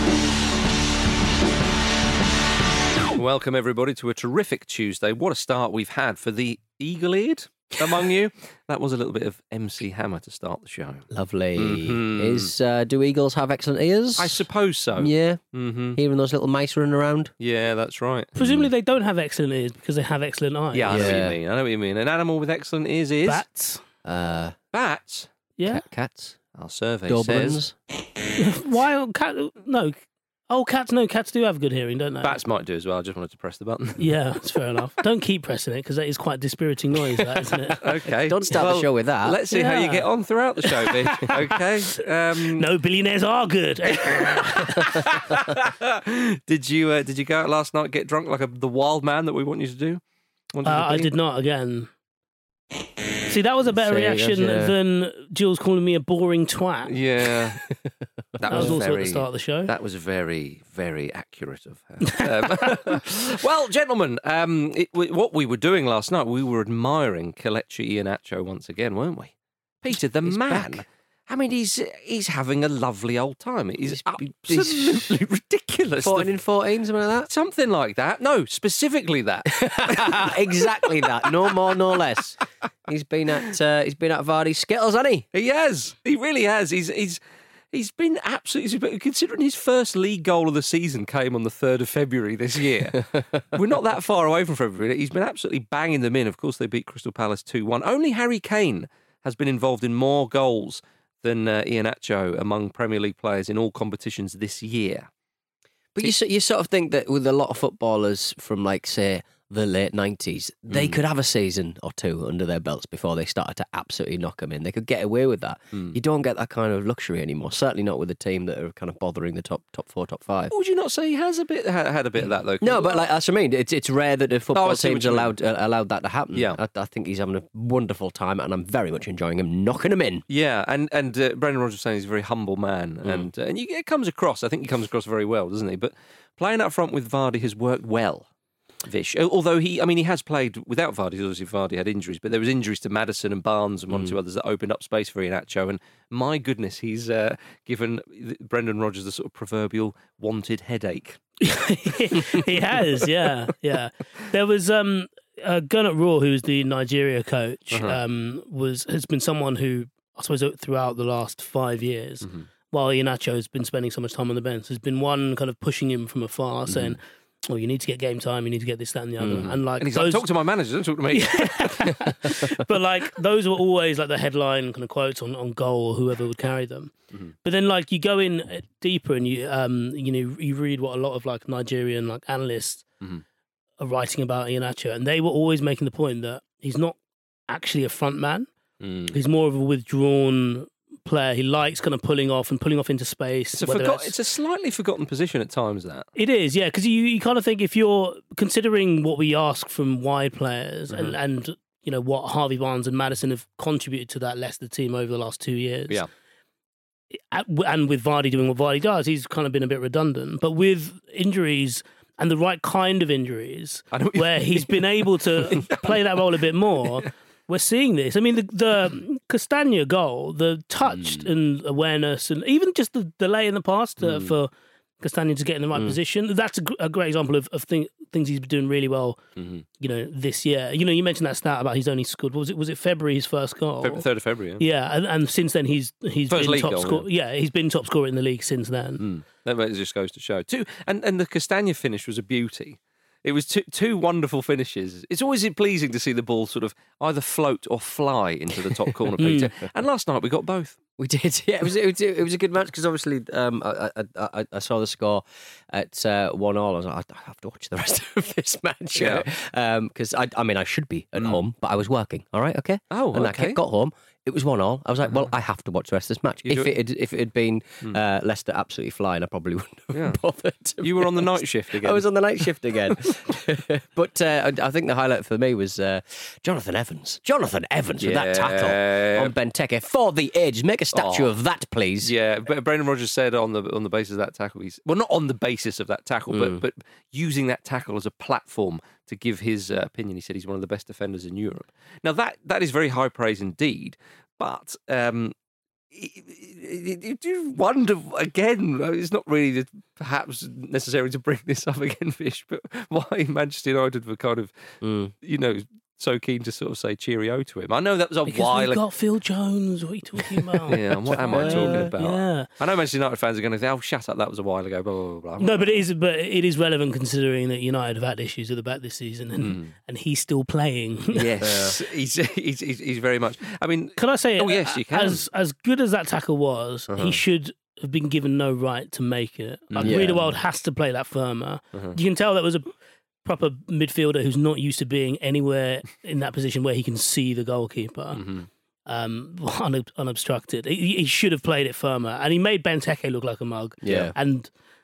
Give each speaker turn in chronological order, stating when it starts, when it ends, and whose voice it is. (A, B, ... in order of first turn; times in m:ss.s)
0:03.1-0:12.5 A
0:11.1-0:14.4 B
0:14.2-0:16.0 A
0:15.0-0:17.3 B
0:17.4-0:18.3 A
0:18.4-0:21.1 C
0:20.7-0:23.4 A
0:20.9-0:21.4 B
0:23.2-0:23.8 C
0:24.0-0:24.6 B
0:24.7-0:25.3 A
0:25.6-0:25.8 C
0:25.6-0:26.4 B
0:26.5-0:27.6 A
0:27.1-0:27.8 B
0:28.3-0:32.4 C
0:32.2-0:34.0 A
0:34.0-0:37.8 C
0:37.8-0:42.6 A
0:38.2-0:39.4 B
0:39.5-0:40.1 C
0:40.6-0:41.3 C
0:42.5-0:44.9 C
0:44.5-0:50.0 A
0:50.5-0:51.1 A
0:50.6-0:51.9 C
0:53.3-0:56.9 C
0:53.8-0:54.7 B
0:56.9-0:57.6 A
0:57.8-0:58.8 B
0:58.4-1:16.3 A
0:58.5-0:59.7 C
1:09.9-1:10.8 B
1:13.8-1:15.2 B
1:16.0-1:17.3 B
1:17.3-1:21.2 A
1:19.6-1:25.2 B
1:25.3-1:27.2 A
1:27.7-1:45.1 A
1:46.0-2:00.5 B
1:50.7-1:51.0 A
2:00.5-2:03.1 A
2:02.2-2:10.2 B
2:04.5-2:05.3 A
2:10.3-2:18.3 A
2:18.8-2:31.2 A
2:31.4-2:50.2 C
2:37.7-2:38.0 A
2:49.2-2:49.5 B
2:49.4-2:52.0 A
2:51.1-2:56.9 C
2:57.4-3:02.8 C
3:03.8-3:07.0 C
3:07.5-3:08.5 C
3:08.8-3:09.2 A
3:09.1-3:14.1 C
3:13.5-3:16.1 A
3:16.2-3:26.0 C
3:20.9-3:21.2 A
3:27.1-3:49.2 C
3:33.9-3:36.0 A
3:40.9-3:41.3 A
3:44.0-3:44.3 A
3:49.4-3:49.6 A
3:49.8-3:54.0 C
3:53.8-3:54.6 A
3:54.6-3:59.0 C
3:56.3-3:57.0 A
3:59.0-4:10.8 A
4:08.7-4:09.1 B
4:09.2-4:09.5 C
4:11.0-4:42.1 B
4:18.9-4:19.2 A
4:21.2-4:21.4 A
4:22.9-4:23.6 A
4:26.4-4:26.8 A
4:29.9-4:30.2 A
4:30.8-4:32.1 A
4:38.0-4:39.3 A
4:40.9-4:41.3 A
4:42.0-4:55.3 A
4:46.3-4:46.6 B
4:55.9-5:04.6 A
5:04.8-5:05.1 B
5:05.2-5:08.8 A
5:08.3-5:12.5 C
5:10.7-5:15.8 A
5:11.1-5:11.9 B
5:15.4-5:21.3 C
5:19.4-5:19.7 A
5:21.1-5:25.2 A
5:21.4-5:21.8 B
5:24.0-5:32.7 C
5:26.9-5:27.2 A
5:29.7-5:30.0 A
5:29.8-5:30.3 B
5:33.2-5:38.2 C
5:38.1-5:38.5 A
5:38.9-5:44.5 C
5:43.8-5:44.1 B